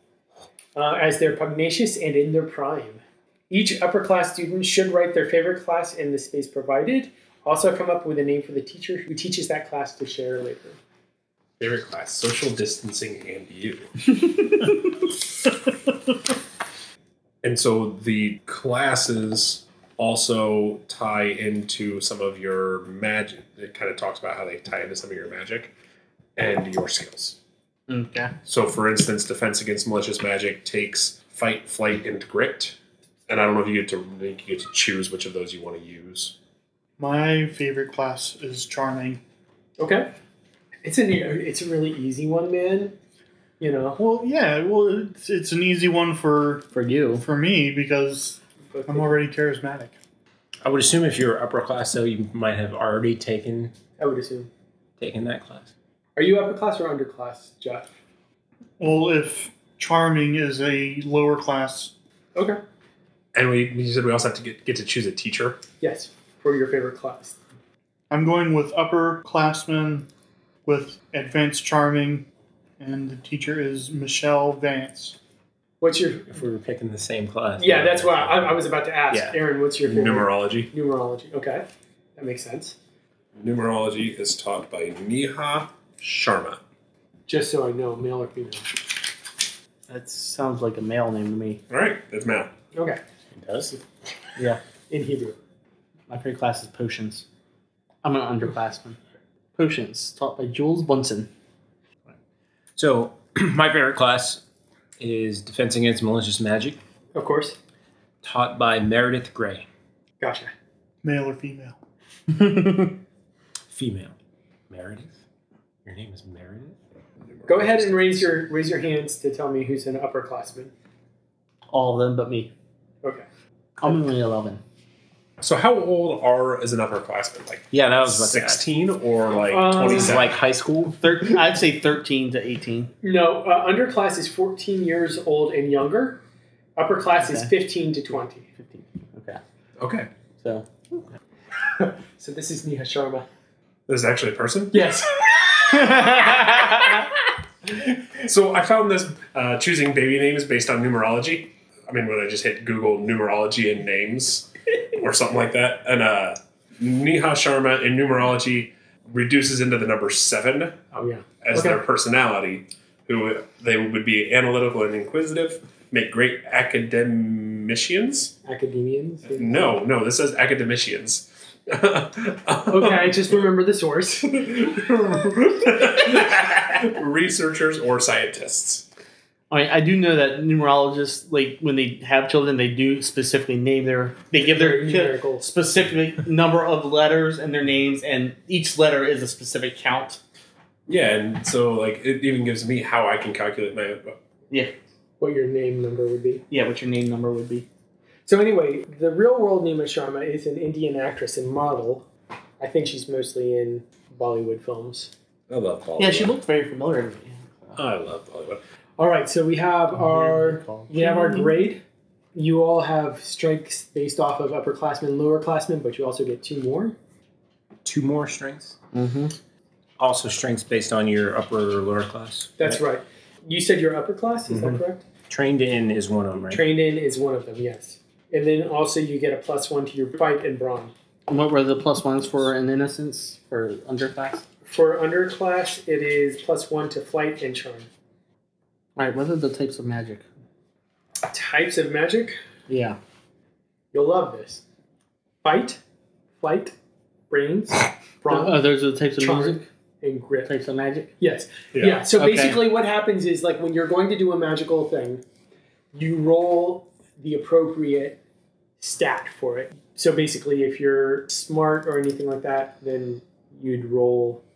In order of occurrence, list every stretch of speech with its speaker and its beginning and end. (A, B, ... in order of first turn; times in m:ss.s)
0:00.7-0:10.8 A
0:11.6-0:13.9 B
0:17.4-0:25.7 B
0:26.4-0:27.4 B
0:27.9-0:28.3 C
0:28.4-0:32.8 B
0:33.3-0:36.3 B
0:37.0-0:39.2 D
0:39.8-0:40.1 A
0:40.8-0:43.0 A
0:43.6-0:44.0 A
0:44.0-0:50.0 D
0:46.7-0:47.2 C
0:48.7-0:49.2 A
0:50.6-0:53.7 E
0:54.0-0:54.5 A
0:55.0-0:55.7 E
0:56.2-0:57.9 A
0:58.8-1:01.9 D
1:02.3-1:02.6 A
1:03.3-1:05.6 B
1:05.8-1:07.4 A
1:08.1-1:10.1 D
1:10.6-1:12.3 D
1:12.8-1:15.2 D
1:15.8-1:16.3 A
1:16.3-1:19.3 E
1:17.6-1:21.6 A
1:19.8-1:20.7 B
1:22.2-1:22.8 A
1:23.4-1:26.6 B
1:27.3-1:28.7 A
1:29.9-1:31.6 C
1:31.7-1:32.5 B
1:32.7-1:33.0 A
1:33.3-1:33.8 E
1:34.9-1:35.4 A
1:36.1-1:37.2 C
1:38.0-1:39.0 C
1:39.6-1:41.3 C
1:42.8-1:44.4 E
1:45.0-1:46.8 E
1:47.1-1:47.6 A
1:48.2-1:49.6 E
1:50.2-1:50.5 A
1:51.0-1:51.8 D
1:52.3-1:52.9 C
1:53.7-1:54.1 E
1:54.7-1:55.2 E
1:55.8-1:56.8 E
1:57.4-1:58.2 B
1:57.4-2:00.7 A
2:01.7-2:02.5 C
2:03.8-2:04.6 C
2:05.4-2:10.3 B
2:07.7-2:08.7 E
2:09.5-2:10.2 A
2:09.8-2:11.0 E
2:11.0-2:12.9 C
2:13.0-2:16.2 A
2:16.8-2:18.4 A
2:17.2-2:17.5 C
2:18.6-2:19.4 C
2:19.8-2:20.1 B
2:20.4-2:20.6 C
2:21.8-2:23.2 A
2:23.9-2:24.9 B
2:24.7-2:25.2 A
2:27.7-2:40.8 B
2:40.9-2:41.8 A
2:41.4-2:48.3 B
2:48.4-2:49.8 A
2:49.3-2:53.3 B
2:52.7-2:54.7 A
2:54.6-2:58.8 B
2:59.5-3:10.2 C
3:04.4-3:05.4 A
3:10.9-3:14.2 B
3:15.2-3:16.4 A
3:16.5-3:17.6 C
3:18.3-3:22.0 A
3:22.6-3:25.1 A
3:25.5-3:26.3 B
3:26.0-3:27.7 C
3:27.8-3:28.6 B
3:29.0-3:31.8 A
3:30.0-3:31.5 C
3:32.3-3:37.0 A
3:37.8-3:38.8 E
3:38.9-3:39.3 C
3:40.0-3:42.8 E
3:42.6-3:45.0 A
3:45.3-3:46.6 E
3:46.5-3:50.9 A
3:51.3-3:54.4 C
3:54.6-3:57.9 A
3:59.0-4:00.2 C
4:01.3-4:02.4 A
4:02.7-4:03.0 C
4:03.9-4:04.6 A
4:05.4-4:05.8 A
4:06.4-4:06.7 A
4:07.3-4:08.6 A
4:08.3-4:09.6 C
4:09.2-4:10.5 A
4:10.4-4:11.1 C
4:11.2-4:15.2 A
4:11.7-4:12.0 B
4:12.1-4:12.7 C
4:15.9-4:18.2 A
4:18.8-4:24.4 A